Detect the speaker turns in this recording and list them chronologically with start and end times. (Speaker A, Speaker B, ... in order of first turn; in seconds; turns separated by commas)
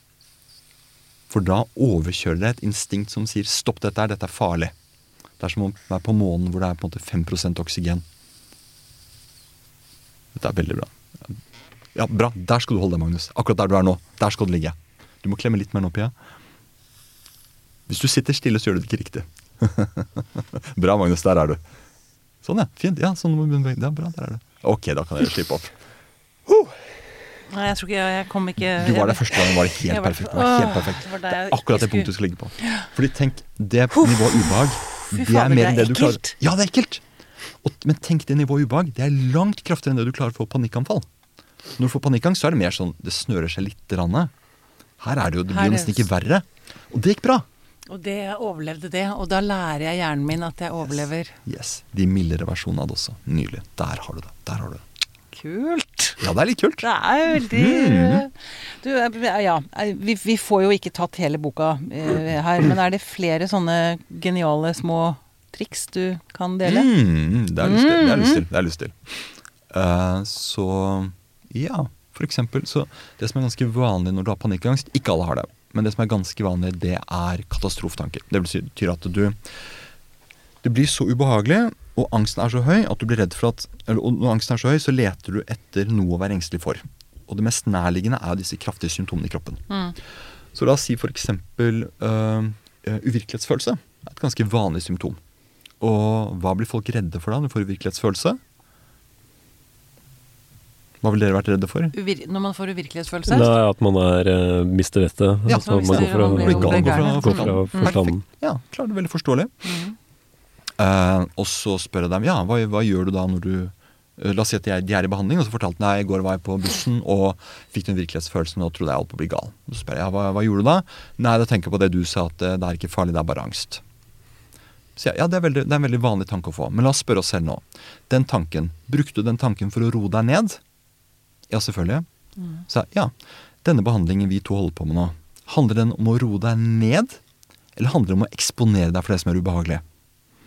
Speaker A: 1.3-4.7, Speaker A: 5.4-8.0, Speaker A: 10.3-11.4, Speaker A: 11.9-16.1, Speaker A: 17.9-21.6, Speaker A: 22.4-25.8, Speaker B: 27.5-32.9, Speaker A: 28.8-37.0, Speaker B: 33.9-36.4, Speaker A: 37.6-41.1, Speaker A: 41.8-44.3, Speaker A: 45.0-47.5, Speaker B: 45.5-46.1, Speaker B: 47.9-51.4, Speaker A: 50.8-54.8, Speaker B: 55.3-56.3, Speaker A: 56.2-56.9, Speaker B: 56.8-66.9, Speaker A: 57.4-58.2, Speaker A: 66.6-79.5, Speaker B: 67.6-68.5, Speaker A: 80.6-89.6, Speaker B: 89.7-90.0, Speaker A: 90.5-95.2, Speaker A: 95.8-98.4, Speaker A: 101.0-102.0, Speaker B: 101.9-103.5, Speaker C: 103.3-108.2, Speaker A: 105.5-109.5, Speaker B: 105.5-108.0, Speaker B: 109.6-110.0, Speaker A: 110.8-123.8, Speaker A: 125.0-130.6, Speaker A: 131.5-132.1, Speaker A: 132.7-137.2, Speaker A: 137.8-139.8